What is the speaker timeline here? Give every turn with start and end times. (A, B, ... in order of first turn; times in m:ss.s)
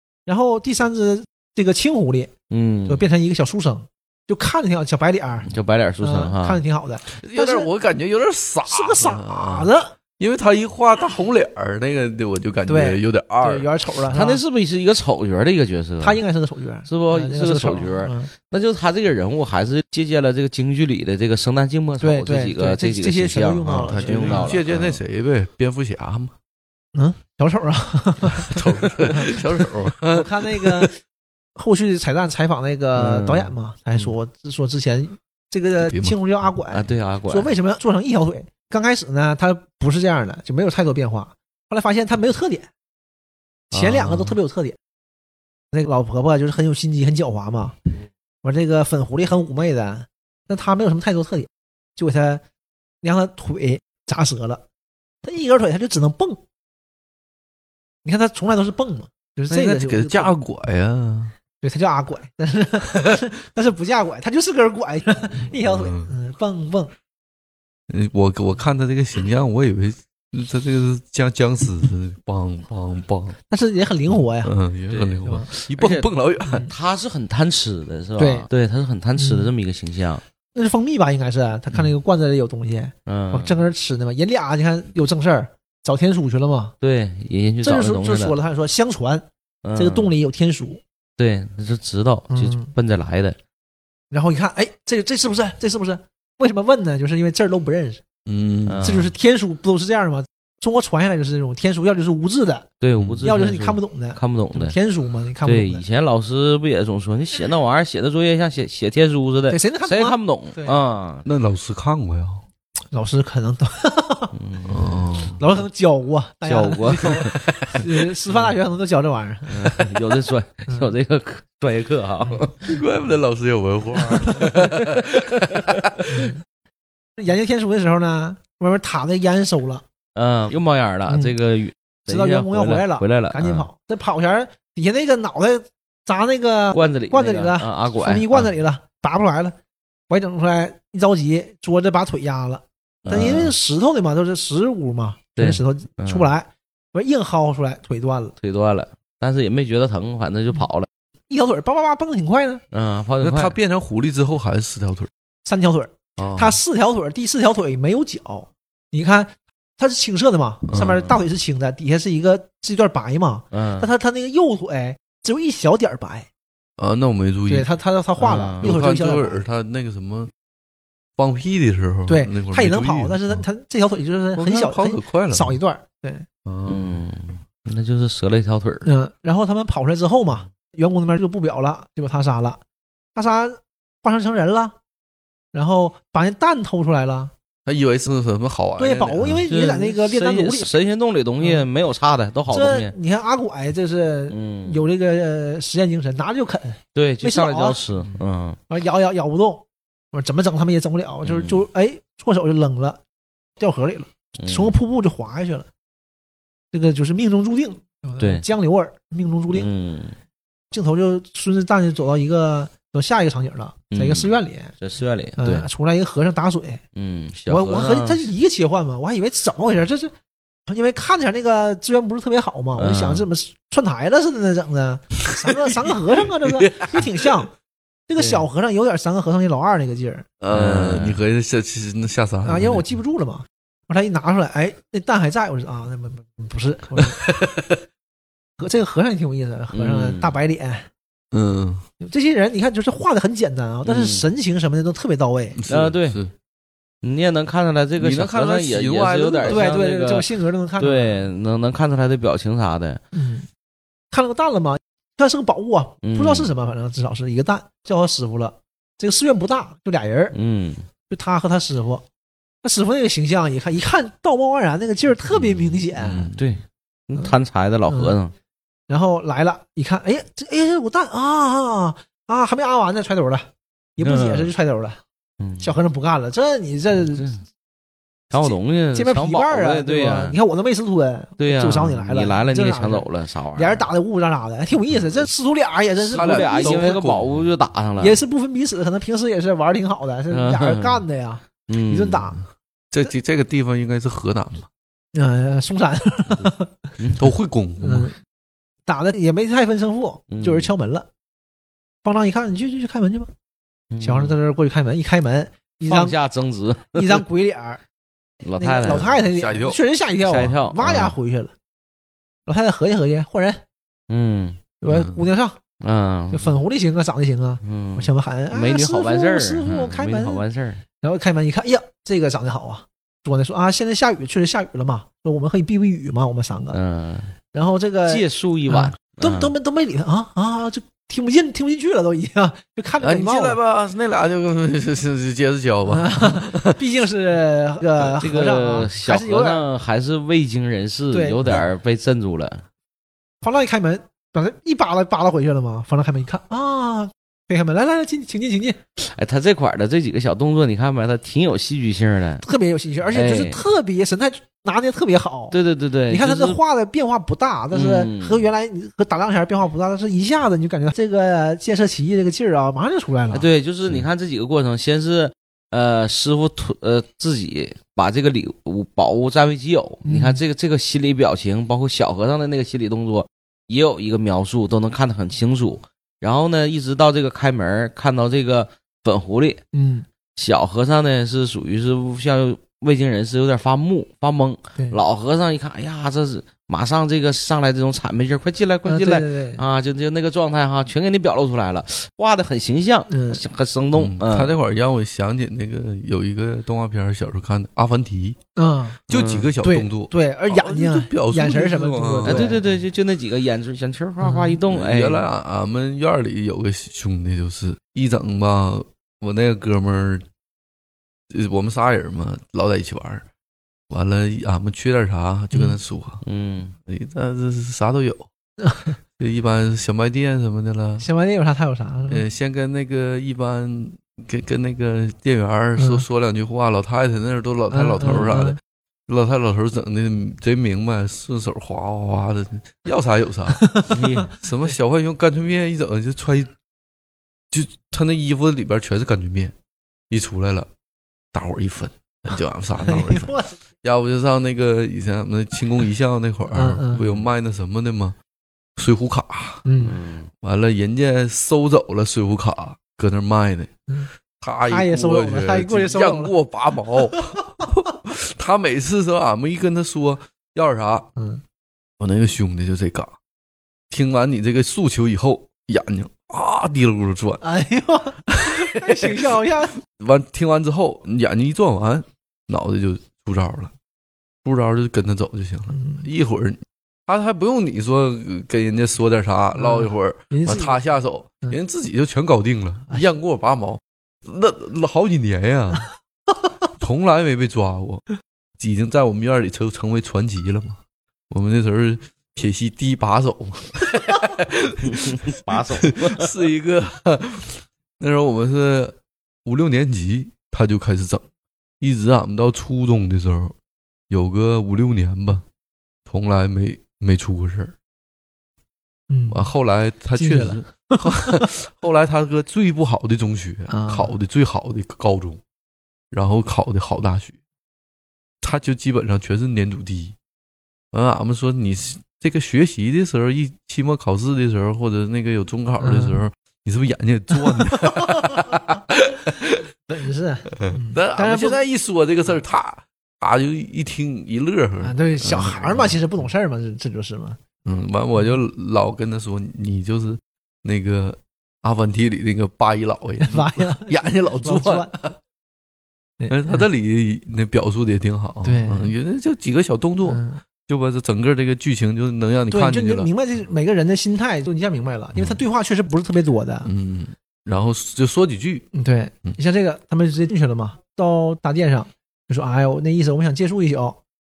0:00.3-0:02.3 A
0:02.5-0:03.0 B
0:02.9-0:07.7 A
0:05.5-0:06.6 B
0:07.1-0:13.7 C
0:08.7-0:09.9 A
0:12.7-0:14.4 A
0:14.1-0:16.2 B
0:16.0-0:18.3 A
0:16.9-0:25.0 B
0:22.0-0:24.6 A
0:23.6-0:26.3 C
0:27.0-0:31.0 A
0:28.3-0:30.9 C
0:31.6-0:42.7 A
0:33.0-0:34.1 B
0:35.8-0:36.2 C
0:36.7-0:37.5 B
0:43.7-0:44.4 C
0:43.7-0:44.8 A
0:45.7-0:47.8 A
0:48.4-0:52.4 A
0:53.0-0:54.6 A
0:55.2-0:56.4 A
0:58.0-1:00.3 A
0:59.5-1:01.3 C
1:01.6-1:06.9 A
1:05.6-1:06.1 C
1:07.9-1:13.4 C
1:13.5-1:14.5 A
1:14.1-1:16.7 C
1:14.9-1:16.1 B
1:16.6-1:20.2 B
1:18.2-1:18.5 A
1:19.2-1:19.5 A
1:20.5-1:26.8 A
1:23.1-1:23.6 B
1:26.8-1:28.4 B
1:27.6-1:30.8 A
1:29.6-1:30.1 B
1:31.2-1:33.4 B
1:32.3-1:32.7 A
1:34.1-1:38.0 A
1:38.3-1:39.1 C
1:38.7-1:39.1 B
1:38.8-1:42.7 A
1:42.8-1:44.8 B
1:43.0-1:43.3 C
1:43.2-1:45.8 A
1:45.4-1:51.3 B
1:49.5-1:50.8 A
1:51.2-1:52.4 C
1:52.9-1:54.3 A
1:54.3-1:55.1 B
1:54.7-1:55.4 C
1:55.4-1:59.9 A
1:56.4-1:57.4 B
1:57.5-1:57.9 C
1:59.5-2:02.7 B
2:02.6-2:06.1 C
2:04.3-2:06.2 B
2:06.1-2:06.4 A
2:07.2-2:09.8 A
2:10.2-2:13.7 B
2:11.1-2:11.4 A
2:12.1-2:19.6 A
2:16.7-2:18.5 B
2:20.1-2:28.4 A
2:23.0-2:23.6 B
2:25.4-2:26.3 B
2:28.4-2:30.9 B
2:31.3-2:32.6 A
2:32.7-2:33.6 B
2:33.2-2:35.1 C
2:35.4-2:46.3 A
2:36.2-2:36.6 C
2:40.7-2:41.0 C
2:40.8-2:41.1 B
2:43.5-2:43.9 B
2:46.8-2:47.7 C
2:47.5-2:49.4 A
2:48.2-2:48.7 B
2:48.6-2:50.3 C
2:51.2-2:53.4 C
2:52.1-2:56.3 A
2:54.3-2:55.6 C
2:56.4-2:57.0 C
2:56.7-2:58.9 B
2:58.8-3:02.6 A
3:03.2-3:04.8 A
3:05.5-3:07.3 A
3:07.7-3:09.5 C
3:08.8-3:10.7 A
3:09.5-3:12.9 B
3:11.4-3:11.7 A
3:12.5-3:17.8 A
3:14.3-3:14.8 B
3:16.9-3:18.6 B
3:18.7-3:23.0 A
3:21.2-3:21.6 B
3:23.6-3:25.7 A
3:24.4-3:24.7 B
3:26.7-3:29.7 A
3:28.2-3:28.4 B
3:29.5-3:30.2 B
3:30.7-3:34.7 A
3:33.9-3:35.7 B
3:35.4-3:36.8 A
3:37.0-3:38.2 B
3:37.5-3:40.1 A
3:40.7-3:47.5 A
3:42.8-3:43.3 B
3:46.4-3:47.2 C
3:48.1-3:50.3 A
3:48.2-3:48.4 B
3:50.4-3:53.0 C
3:50.5-3:51.2 B
3:52.4-3:57.2 A
3:57.0-3:57.8 C
3:58.6-4:00.9 A
3:59.7-4:00.4 B
4:01.3-4:01.8 C
4:02.0-4:05.6 A
4:03.8-4:04.3 B
4:05.6-4:06.3 C
4:05.7-4:06.2 B
4:07.0-4:10.3 B
4:08.0-4:09.7 C
4:09.4-4:11.2 A
4:10.8-4:13.0 B
4:13.1-4:13.5 A
4:14.1-4:20.3 A
4:16.0-4:16.5 B
4:20.3-4:20.8 B
4:21.1-4:22.0 A
4:22.6-4:26.3 A
4:25.4-4:26.4 C
4:26.3-4:28.3 B
4:27.9-4:28.2 A
4:28.9-4:35.0 A
4:34.0-4:34.5 B
4:35.4-4:35.8 B
4:35.6-4:37.4 A
4:37.1-4:37.4 B
4:38.3-4:40.4 B
4:38.4-4:47.0 A
4:41.4-4:43.9 B
4:46.0-4:47.5 C
4:46.1-4:48.2 B
4:48.0-4:52.4 A
4:50.3-4:51.0 B
4:51.7-4:52.3 B
4:52.9-4:54.7 C
4:55.1-4:56.7 A
4:57.0-4:57.3 B
4:57.2-4:58.1 C
4:57.8-4:58.2 A
4:58.9-5:01.1 A
5:00.3-5:00.7 B
5:02.0-5:03.3 A
5:03.9-5:04.4 B
5:04.0-5:06.2 A
5:05.9-5:07.2 B
5:07.0-5:07.8 A
5:08.4-5:09.2 B
5:08.6-5:11.5 A
5:08.9-5:09.8 C
5:10.2-5:11.2 B
5:12.5-5:13.6 A
5:14.1-5:14.6 B
5:14.8-5:15.6 A
5:14.9-5:15.3 C
5:15.8-5:16.6 B
5:16.3-5:20.4 A
5:17.6-5:20.8 B
5:21.0-5:26.8 A
5:26.7-5:27.3 B
5:27.5-5:33.6 A
5:28.1-5:29.5 B
5:33.0-5:36.8 C
5:35.9-5:39.6 A
5:38.0-5:42.6 B
5:41.1-5:41.7 A
5:43.4-5:48.8 A
5:49.0-5:52.4 B
5:52.4-5:55.6 A
5:53.1-5:53.6 B
5:55.5-5:56.6 B
5:56.1-6:03.5 A
5:57.7-5:58.4 B
6:03.3-6:19.6 B
6:10.0-6:10.4 A
6:19.7-6:20.1 A
6:20.4-6:34.5 B
6:28.9-6:29.6 A
6:33.1-6:33.4 A
6:34.0-6:38.4 C
6:38.6-6:39.0 A
6:39.1-6:42.6 C
6:39.1-6:39.5 B
6:39.6-6:42.6 A
6:42.2-6:45.2 B
6:44.2-6:44.6 A
6:44.7-6:50.2 C
6:51.3-6:53.2 C
6:53.9-6:56.2 C
6:56.2-6:56.7 B
6:56.9-6:58.3 C
6:58.6-6:58.9 A
6:59.2-7:01.1 C
7:01.0-7:02.2 A
7:02.1-7:16.5 C
7:05.8-7:06.0 A
7:07.7-7:08.6 A
7:13.6-7:14.0 A
7:13.9-7:14.3 B
7:17.5-7:19.5 C
7:20.1-7:20.7 C
7:21.3-7:28.2 C
7:22.8-7:23.6 A
7:26.5-7:27.0 A
7:28.8-7:29.6 C
7:29.6-7:30.0 A
7:29.8-7:30.3 B
7:30.4-7:33.7 C
7:34.4-7:41.1 C
7:34.7-7:36.3 A
7:41.2-7:41.4 A
7:42.0-7:43.2 C
7:43.9-7:47.4 C
7:47.4-7:49.8 A
7:48.4-7:49.3 C
7:49.8-7:53.7 C
7:54.4-8:05.9 C
7:55.7-7:56.0 A
7:59.6-8:00.8 A
8:06.8-8:08.0 C
8:08.6-8:10.8 C
8:11.3-8:21.2 C
8:14.8-8:16.3 B
8:21.8-8:23.6 C
8:24.1-8:25.4 C
8:26.1-8:27.7 C
8:29.1-8:29.5 A
8:29.3-8:35.4 C
8:30.2-8:31.5 A
8:33.7-8:34.1 A
8:36.1-8:37.4 C
8:38.4-8:40.2 C
8:40.9-8:49.6 C
8:45.8-8:46.2 A
8:47.4-8:48.6 A
8:49.9-8:51.6 A
8:50.6-8:56.0 C
8:54.8-8:57.4 A
8:57.6-9:05.1 C
9:03.2-9:04.9 A
9:06.2-9:06.7 A
9:06.3-9:13.1 C
9:08.4-9:08.9 A
9:10.1-9:10.4 A
9:12.5-9:16.7 A
9:15.2-9:15.4 C
9:16.6-9:18.7 C
9:18.7-9:24.0 A